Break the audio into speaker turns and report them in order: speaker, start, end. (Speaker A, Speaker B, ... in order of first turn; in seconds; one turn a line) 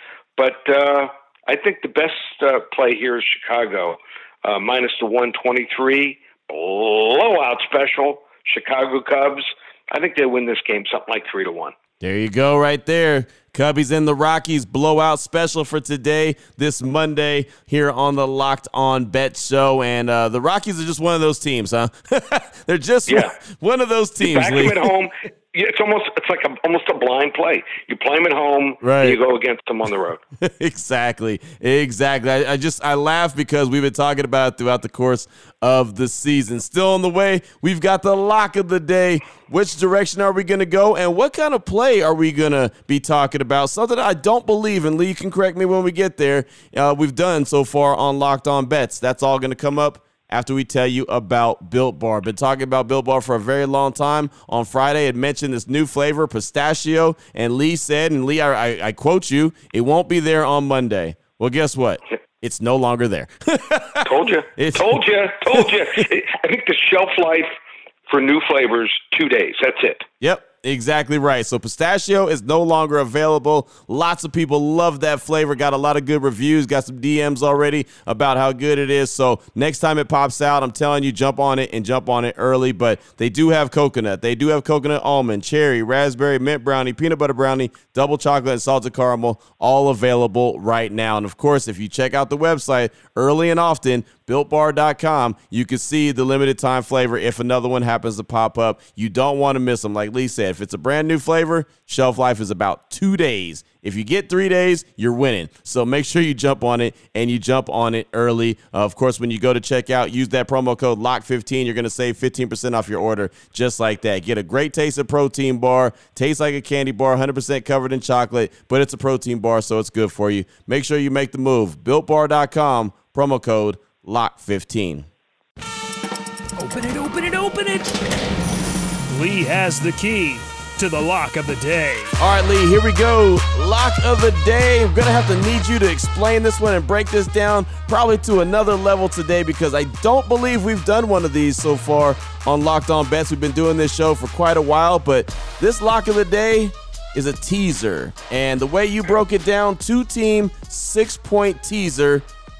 Speaker A: 0.4-11.7
Speaker B: 12.0-24.9
Speaker A: 23.1-23.3
Speaker A: 24.2-30.2
Speaker B: 28.8-29.2
Speaker B: 30.4-65.0
Speaker A: 64.0-67.5
Speaker A: 68.1-70.0
Speaker B: 70.2-125.1
Speaker C: 126.6-127.9
Speaker C: 129.1-132.2
Speaker B: 132.2-152.2